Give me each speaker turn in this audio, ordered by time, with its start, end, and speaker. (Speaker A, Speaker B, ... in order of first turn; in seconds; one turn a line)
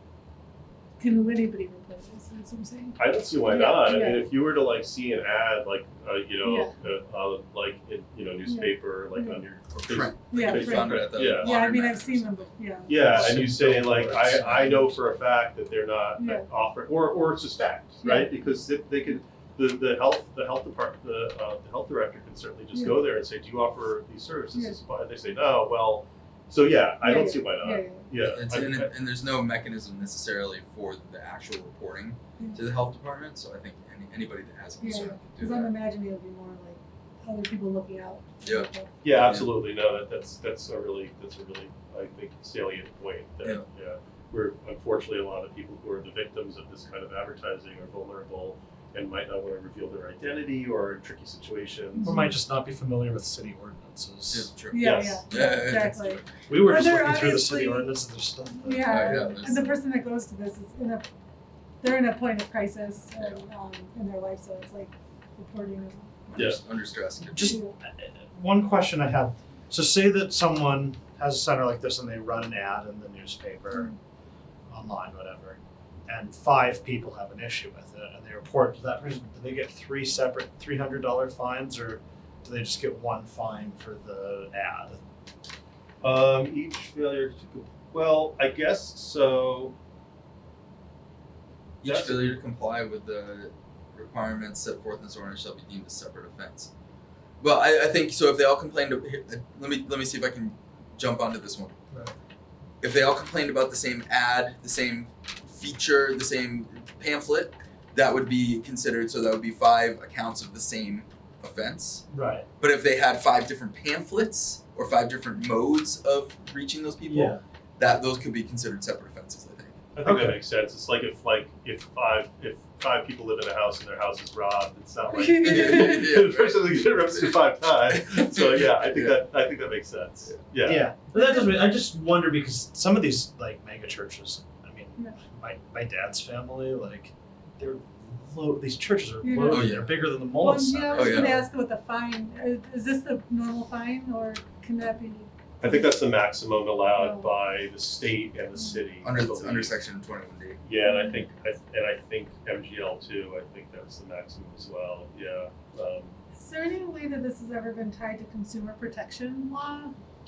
Speaker A: 1.0-4.3
Speaker B: 3.0-11.6
Speaker A: 6.4-6.7
Speaker A: 8.4-9.4
Speaker C: 9.7-12.4
Speaker A: 10.3-13.3
Speaker B: 12.9-28.9
Speaker D: 12.9-15.0
Speaker A: 16.2-16.5
Speaker A: 18.0-18.4
Speaker A: 22.7-23.0
Speaker A: 27.0-28.1
Speaker C: 28.2-35.7
Speaker A: 34.8-39.0
Speaker C: 38.4-39.5
Speaker B: 39.0-52.2
Speaker A: 52.0-52.3
Speaker D: 52.0-54.5
Speaker C: 54.3-56.3
Speaker A: 54.7-58.0
Speaker B: 54.8-55.2
Speaker D: 56.5-59.4
Speaker A: 58.6-61.1
Speaker C: 58.9-59.8
Speaker A: 61.8-66.3
Speaker C: 63.2-63.4
Speaker C: 66.3-67.6
Speaker D: 67.3-73.9
Speaker A: 67.3-67.7
Speaker D: 74.7-85.0
Speaker B: 86.0-89.8
Speaker C: 91.8-96.7
Speaker B: 91.8-92.4
Speaker C: 97.4-101.8
Speaker C: 102.8-112.1
Speaker D: 112.1-112.5
Speaker C: 112.6-119.8
Speaker D: 117.1-117.4
Speaker B: 120.0-130.9
Speaker D: 120.0-120.4
Speaker A: 125.1-126.1
Speaker C: 125.4-129.2
Speaker D: 130.6-141.5
Speaker A: 131.1-131.6
Speaker A: 139.2-139.7
Speaker C: 139.5-140.2
Speaker A: 140.3-146.0
Speaker C: 140.9-141.4
Speaker B: 145.6-149.8
Speaker A: 146.9-147.3
Speaker A: 148.6-148.8
Speaker C: 149.0-150.6
Speaker B: 150.6-156.1
Speaker A: 150.8-151.2
Speaker A: 156.4-159.9